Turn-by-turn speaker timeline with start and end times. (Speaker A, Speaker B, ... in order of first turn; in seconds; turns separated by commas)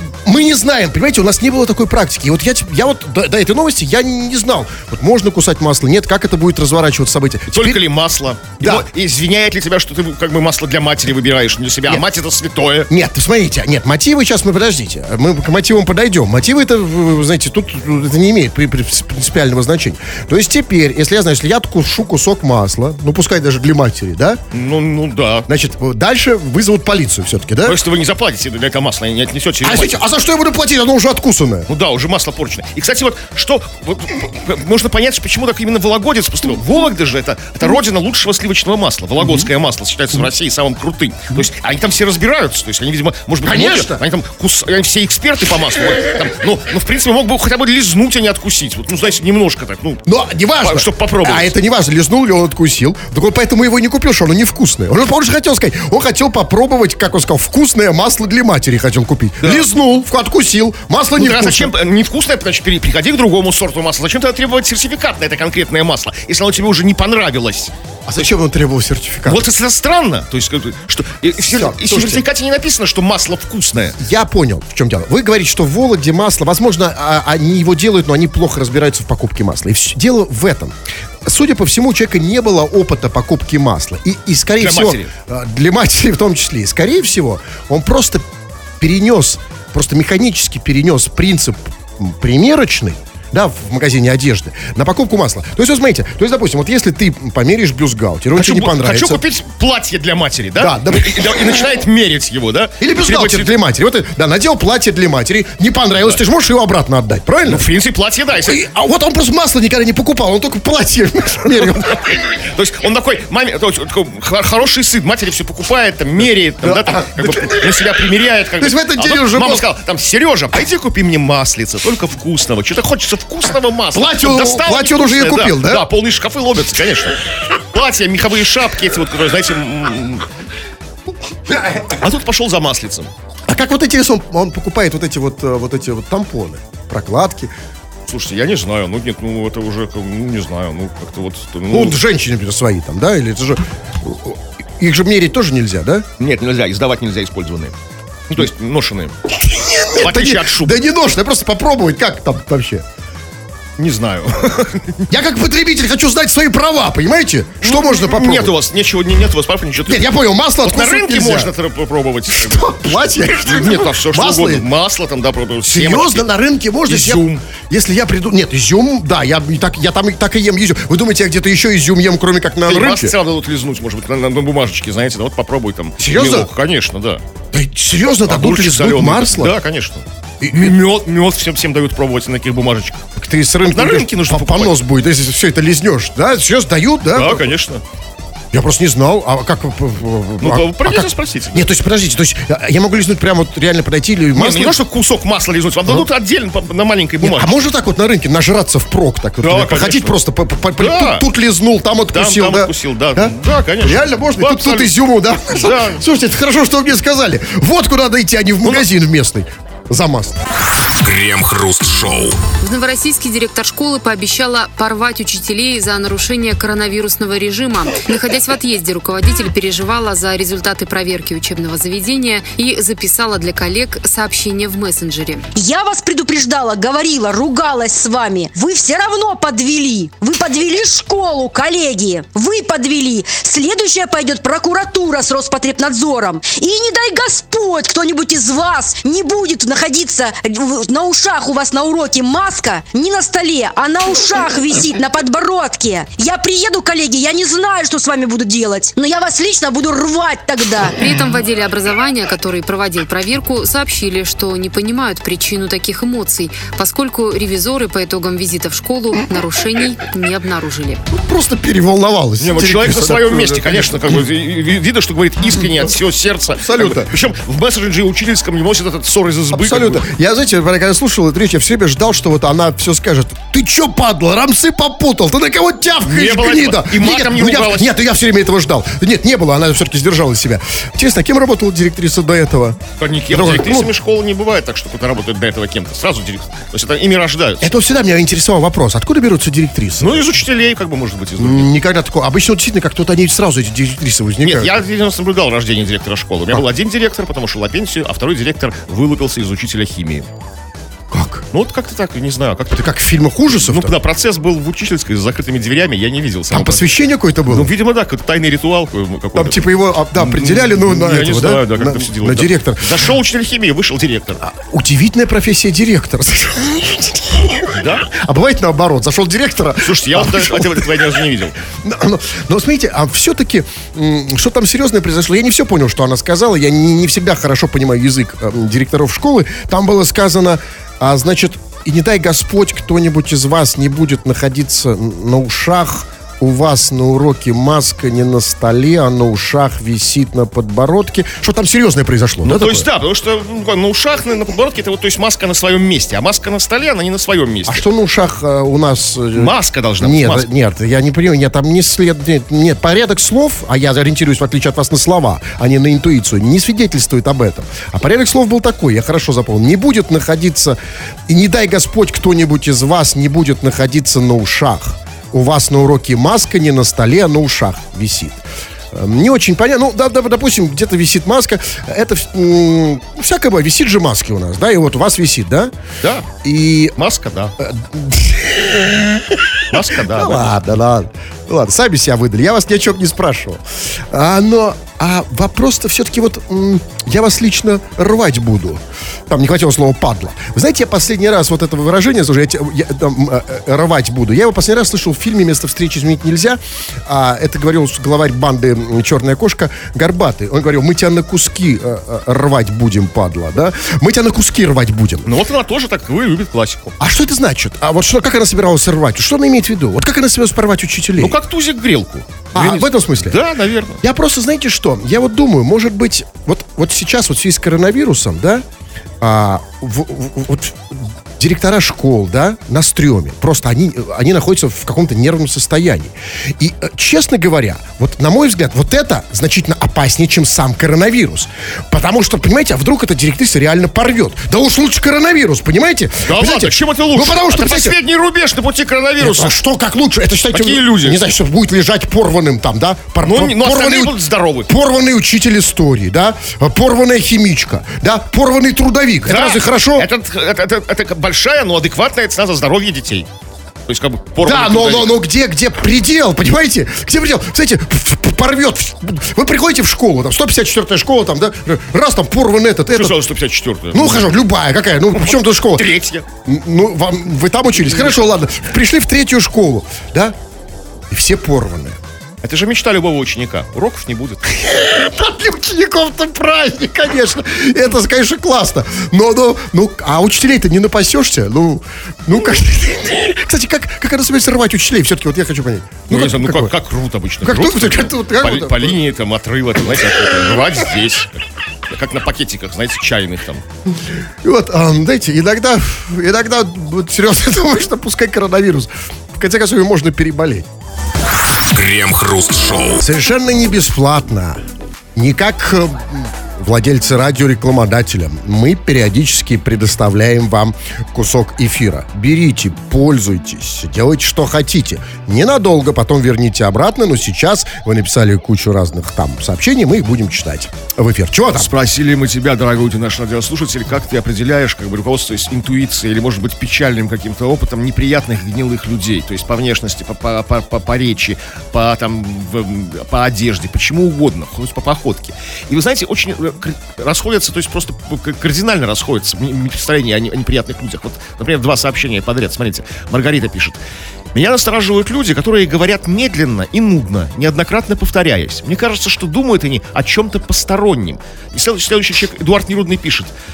Speaker A: 0.2-7.8, Speaker B: 7.5-12.9, Speaker A: 8.6-8.9, Speaker A: 12.9-24.4, Speaker B: 24.5-25.5, Speaker A: 25.5-27.8, Speaker B: 27.6-30.0, Speaker A: 29.6-31.7, Speaker B: 31.7-50.0, Speaker A: 43.4-44.0, Speaker A: 50.1-61.7, Speaker B: 50.6-51.5, Speaker B: 59.4-59.7, Speaker B: 61.1-67.7, Speaker A: 68.1-69.5, Speaker B: 69.2-74.0, Speaker A: 71.5-72.2, Speaker A: 74.0-88.2, Speaker B: 84.6-85.1, Speaker A: 88.8-99.2, Speaker B: 98.3-103.5, Speaker A: 100.6-101.7, Speaker A: 102.8-107.7, Speaker B: 107.4-108.6, Speaker A: 108.4-112.2, Speaker B: 111.8-127.2, Speaker A: 116.6-117.8, Speaker A: 118.6-119.7, Speaker A: 123.9-125.9, Speaker B: 127.7-130.3, Speaker B: 131.8-133.1, Speaker A: 133.5-137.5, Speaker B: 138.1-142.0, Speaker A: 141.7-146.1, Speaker B: 146.2-147.8, Speaker B: 148.3-149.1, Speaker A: 149.4-152.8, Speaker B: 149.9-150.8, Speaker B: 153.8-155.1, Speaker A: 155.1-158.6, Speaker B: 157.6-160.1, Speaker A: 159.9-161.5, Speaker B: 160.6-166.2, Speaker A: 162.3-164.7, Speaker A: 165.7-173.1, Speaker B: 166.9-167.4, Speaker B: 172.6-177.2, Speaker A: 176.0-176.5, Speaker A: 177.5-179.6, Speaker B: 178.3-183.0, Speaker A: 180.4-180.8, Speaker A: 183.2-187.5, Speaker B: 183.7-184.8, Speaker B: 187.1-187.8, Speaker A: 188.5-194.8, Speaker B: 190.4-191.7, Speaker B: 194.3-197.6, Speaker A: 197.2-210.4, Speaker B: 199.4-200.2, Speaker B: 200.8-201.2, Speaker B: 202.1-204.9, Speaker B: 205.5-206.0, Speaker C: 210.8-212.4, Speaker D: 212.6-225.5, Speaker E: 225.5-251.0, Speaker D: 250.9-261.0, Speaker A: 261.1-264.2, Speaker B: 262.4-270.0, Speaker A: 266.6-267.1, Speaker A: 269.5-283.9, Speaker B: 276.1-277.9, Speaker B: 283.0-287.7, Speaker A: 287.6-290.3, Speaker B: 290.0-291.7, Speaker A: 291.4-294.8, Speaker B: 294.4-300.3, Speaker A: 301.1-301.4, Speaker B: 301.5-302.9, Speaker A: 302.7-304.0, Speaker B: 303.5-306.9, Speaker A: 306.5-307.7, Speaker B: 307.5-314.4, Speaker A: 309.3-313.1, Speaker A: 314.4-321.2, Speaker B: 317.7-318.1, Speaker B: 319.8-321.6, Speaker A: 321.8-342.9, Speaker B: 342.4-347.8, Speaker A: 347.7-360.8, Speaker B: 349.3-350.5, Speaker A: 361.3-375.7, Speaker B: 376.0-376.3, Speaker A: 376.4-376.9, Speaker B: 377.0-377.5, Speaker A: 377.6-405.3, Speaker B: 379.7-380.6, Speaker B: 405.2-407.0, Speaker A: 407.0-411.4, Speaker B: 411.2-414.0, Speaker A: 412.5-413.4, Speaker A: 414.0-418.6, Speaker A: 419.2-438.0, Speaker B: 436.2-439.5, Speaker A: 439.2-450.1, Speaker B: 440.5-441.2, Speaker B: 443.2-444.7, Speaker B: 449.2-453.3, Speaker B: 453.9-455.2, Speaker A: 454.4-463.2, Speaker B: 462.9-464.4, Speaker A: 463.9-465.9, Speaker B: 465.1-466.2, Speaker A: 466.4-470.4, Speaker A: 471.1-472.0, Speaker B: 472.4-474.6, Speaker A: 474.6-486.7, Speaker B: 486.1-491.3, Speaker A: 487.4-489.0, Speaker B: 491.9-493.6, Speaker A: 494.4-500.7, Speaker C: 501.4-503.0, Speaker A: 503.0-504.6, Speaker A: 505.1-521.7, Speaker B: 521.5-543.8, Speaker B: 544.3-553.3